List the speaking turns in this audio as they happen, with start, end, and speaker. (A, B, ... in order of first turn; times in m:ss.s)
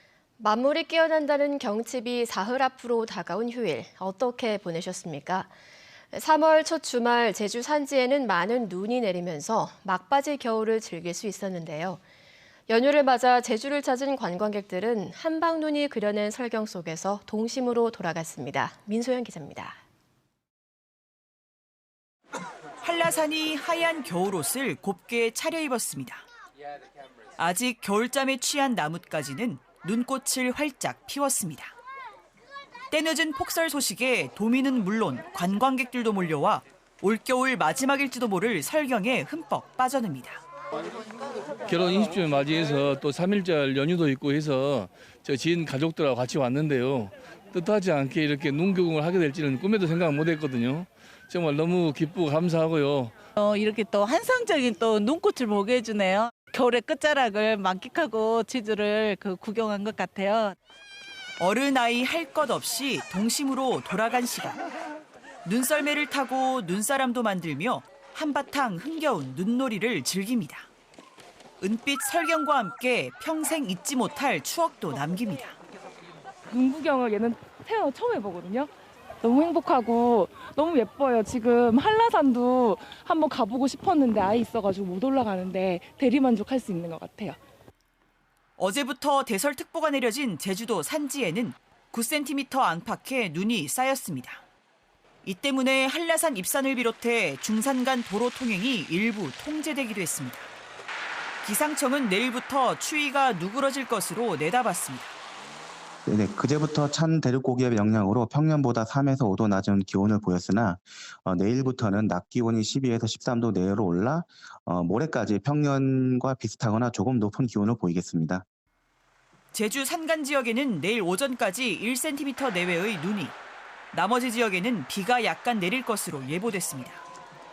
0:00.4-0:05.5 A
0:06.1-0:12.0 A
0:12.7-0:19.8 A
0:22.8-0:26.2 B
0:27.4-0:31.7 B
0:32.9-0:40.4 B
0:41.7-0:53.2 C
0:53.4-1:00.6 D
1:01.4-1:04.6 B
1:05.4-1:10.7 B
1:11.6-1:15.6 B
1:16.5-1:18.7 E
1:19.2-1:27.4 E
1:28.6-1:34.4 B
1:35.2-1:40.5 B
1:41.4-1:45.2 B
1:46.1-1:58.4 F
1:59.5-2:03.4 B
2:03.9-2:07.0 B